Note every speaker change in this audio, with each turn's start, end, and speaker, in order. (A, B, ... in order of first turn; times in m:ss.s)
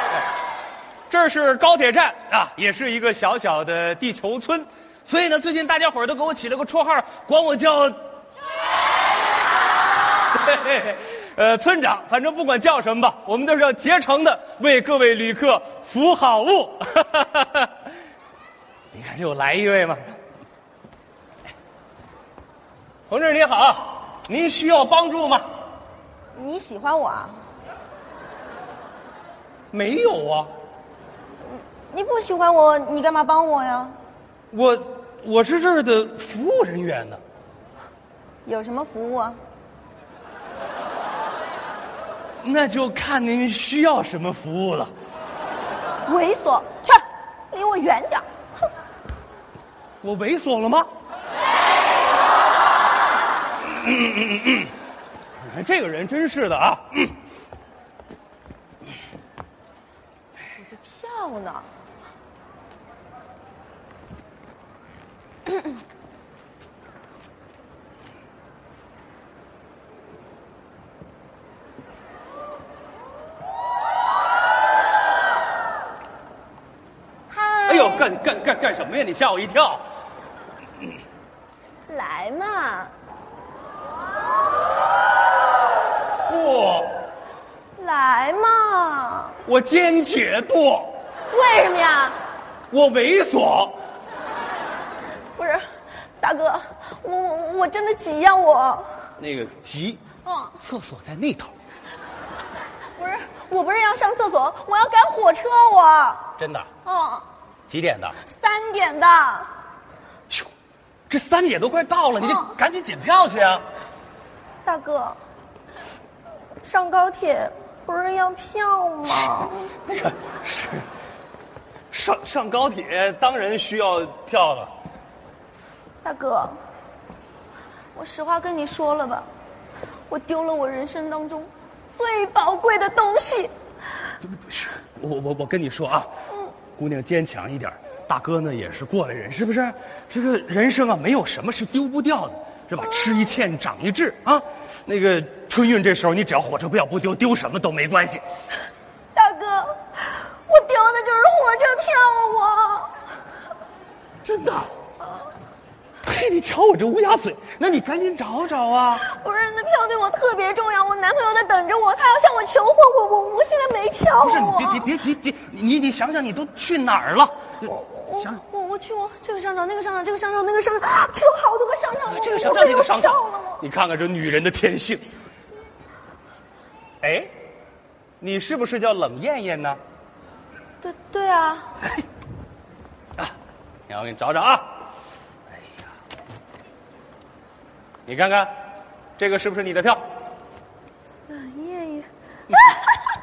0:01.1-0:08.0 A
0:10.3-0:17.7 A
0:18.9-0:20.2 A
0:23.1-0:25.5 A
0:26.3-0:27.4 B
0:29.7-0:30.5 A
0:31.5-0:34.0 B
0:34.5-0:37.2 A
0:38.4-0:39.4 B
0:42.4-0:44.9 A
0:46.1-0:48.3 B
0:50.0-0:50.9 A
0:53.6-0:54.7 A
0:55.4-0:57.2 A
1:00.6-1:01.7 B
1:17.3-1:18.1 B
1:17.7-1:19.8 A
1:21.9-1:22.9 B
1:26.3-1:27.0 A
1:27.8-1:29.4 B
1:29.4-1:30.9 A
1:31.3-1:32.2 B
1:32.7-1:33.8 A
1:35.4-1:35.6 B
1:36.2-1:38.9 B
1:39.2-1:40.0 A
1:40.2-1:40.6 B
1:40.6-1:41.5 A
1:43.0-1:46.3 B
1:46.4-1:46.7 A
1:46.8-1:47.2 B
1:47.7-1:48.2 A
1:48.3-1:49.5 B
1:51.1-1:53.6 A
1:52.2-1:52.5 B
1:54.6-1:55.2 B
1:56.6-1:59.7 B
1:59.9-2:00.8 A
2:01.9-2:04.7 A
2:06.0-2:06.6 B
2:07.9-2:09.3 B
2:10.1-2:13.5 B
2:14.2-2:16.1 A
2:16.8-2:28.2 A
2:29.2-2:32.9 B
2:34.2-2:34.7 A
2:36.0-2:39.1 A
2:39.0-2:44.8 B
2:44.2-2:48.4 A
2:47.6-2:53.6 B
2:52.1-2:55.1 A
2:57.0-2:57.3 A
2:58.2-2:59.8 A
3:00.8-3:01.7 B
3:03.9-3:04.7 A
3:08.1-3:08.5 A
3:09.2-3:10.0 A
3:11.3-3:13.0 B